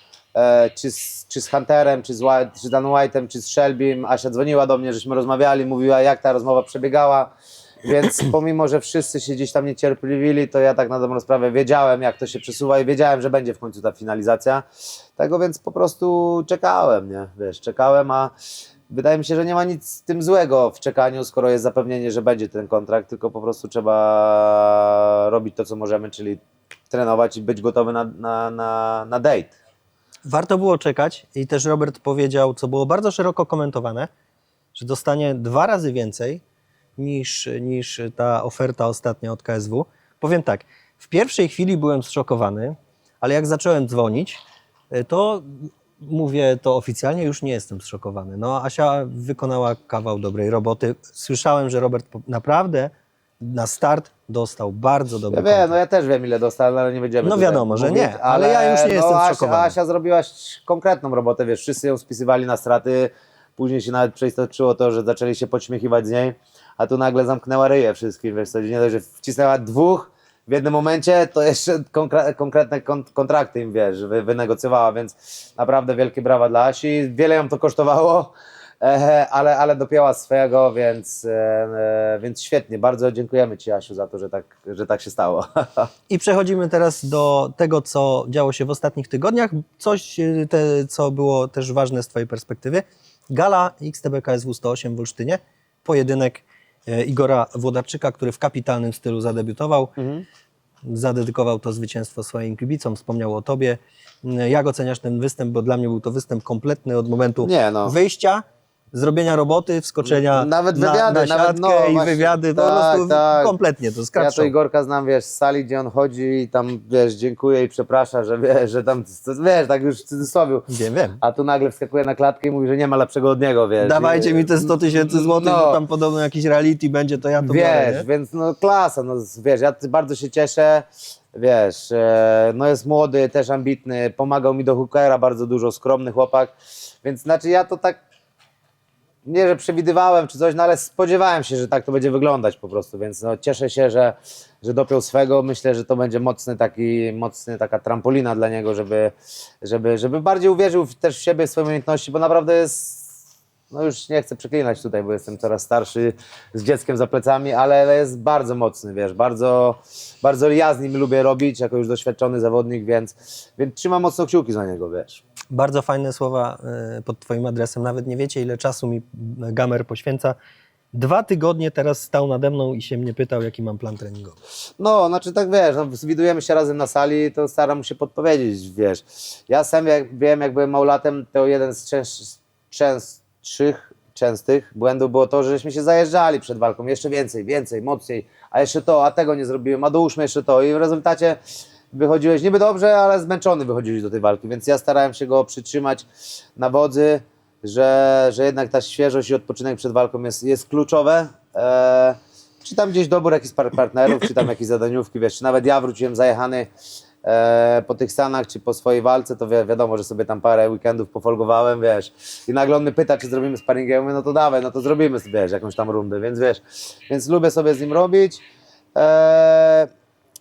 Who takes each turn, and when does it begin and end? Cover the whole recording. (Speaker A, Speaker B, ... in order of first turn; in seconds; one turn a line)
Speaker A: 0.3-7.3
Speaker A: 7.8-14.6
Speaker A: 15.2-18.3
Speaker A: 18.9-29.5
Speaker B: 30.3-34.1
Speaker B: 34.7-36.4
Speaker B: 37.0-55.7
Speaker A: 55.3-85.9
Speaker B: 57.2-59.7
Speaker B: 86.1-99.9
Speaker A: 100.0-100.2
Speaker B: 100.8-114.5
Speaker A: 107.4-107.9
Speaker A: 110.0-113.5
Speaker A: 114.1-120.7
Speaker B: 120.7-121.2
Speaker A: 121.2-125.8
Speaker B: 123.8-128.1
Speaker A: 127.4-138.0
Speaker A: 139.2-153.1
Speaker A: 153.7-165.2
Speaker B: 165.5-170.3
Speaker B: 170.9-174.4
Speaker A: 174.8-191.4
Speaker A: 191.9-206.7
Speaker A: 207.2-218.4
Speaker A: 218.9-219.9